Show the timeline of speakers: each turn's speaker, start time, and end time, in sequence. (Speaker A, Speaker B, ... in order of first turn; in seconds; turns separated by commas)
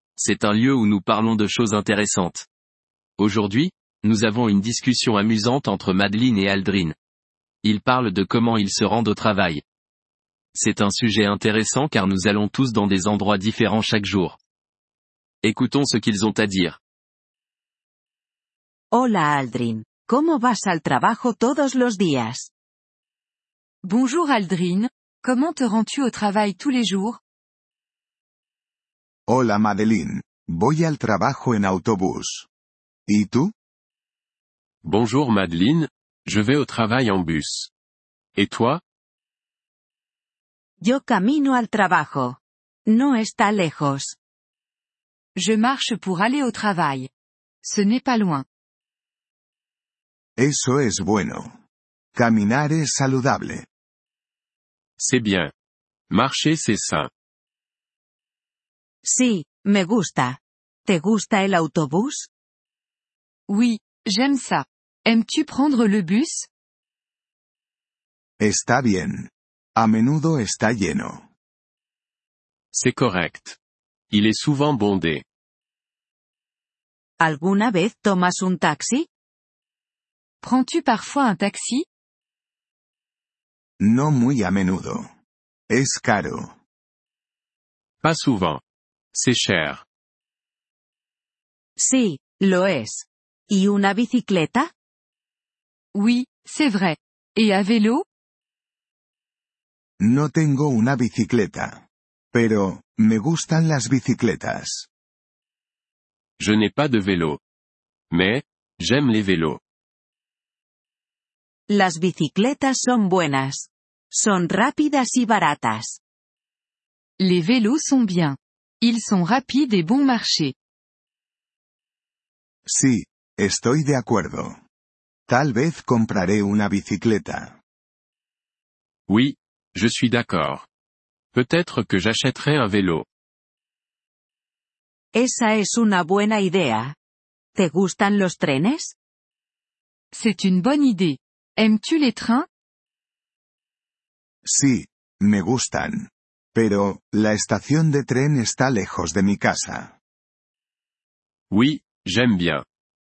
Speaker A: 0.2-2.5, Speaker A: 3.2-7.0, Speaker A: 7.6-9.6, Speaker A: 10.5-14.4, Speaker A: 15.4-16.8, Speaker B: 18.9-22.5, Speaker C: 23.8-27.2, Speaker D: 29.3-32.5, Speaker D: 33.1-33.5, Speaker E: 34.8-37.7, Speaker E: 38.4-38.8, Speaker B: 40.8-44.1, Speaker C: 45.4-47.1, Speaker C: 47.6-48.5, Speaker D: 50.4-51.6, Speaker D: 52.1-53.7, Speaker E: 55.0-55.5, Speaker E: 56.1-57.1, Speaker B: 59.0-62.3, Speaker C: 63.5-66.5, Speaker D: 68.4-71.3, Speaker E: 72.7-73.6, Speaker E: 74.1-75.2, Speaker B: 77.2-79.1, Speaker C: 80.4-81.9, Speaker D: 83.8-85.1, Speaker D: 85.7-86.6, Speaker E: 88.0-88.6, Speaker E: 89.1-89.8, Speaker B: 91.8-94.7, Speaker C: 95.9-98.0, Speaker D: 100.0-104.9, Speaker E: 106.4-107.4, Speaker E: 108.1-109.6, Speaker B: 111.7-116.0, Speaker C: 117.2-120.5, Speaker D: 122.7-124.6, Speaker D: 125.3-127.6, Speaker E: 129.1-130.7, Speaker E: 131.3-133.1, Speaker B: 135.1-136.9, Speaker B: 137.6-138.9, Speaker C: 140.1-142.5, Speaker D: 144.4-150.0, Speaker E: 151.5-152.7